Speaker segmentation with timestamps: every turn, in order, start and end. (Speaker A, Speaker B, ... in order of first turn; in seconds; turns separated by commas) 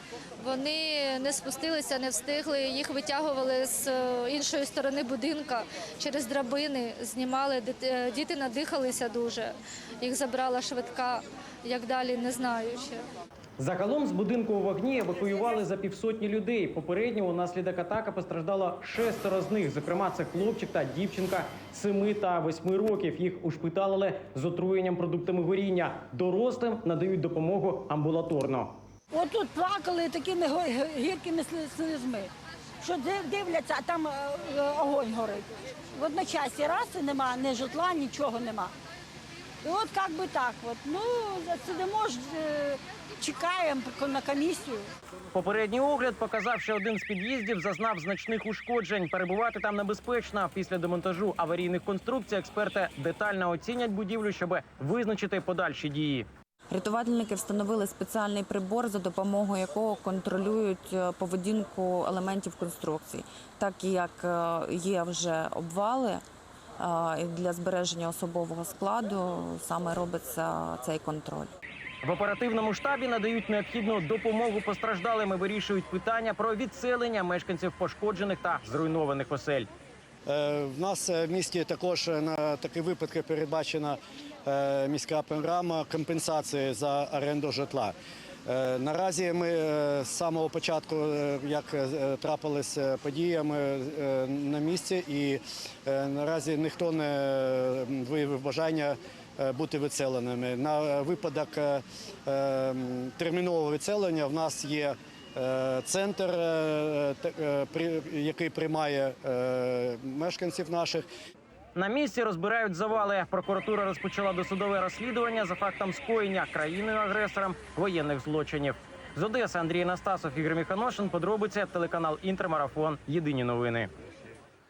Speaker A: 0.4-13.0, Speaker B: 13.6-28.8, Speaker C: 29.1-32.3, Speaker C: 32.8-38.7, Speaker C: 39.6-44.9, Speaker B: 45.3-56.3, Speaker D: 56.7-66.2, Speaker D: 66.8-71.5, Speaker B: 72.0-79.7, Speaker E: 80.3-87.9, Speaker E: 88.5-111.1, Speaker B: 111.8-123.9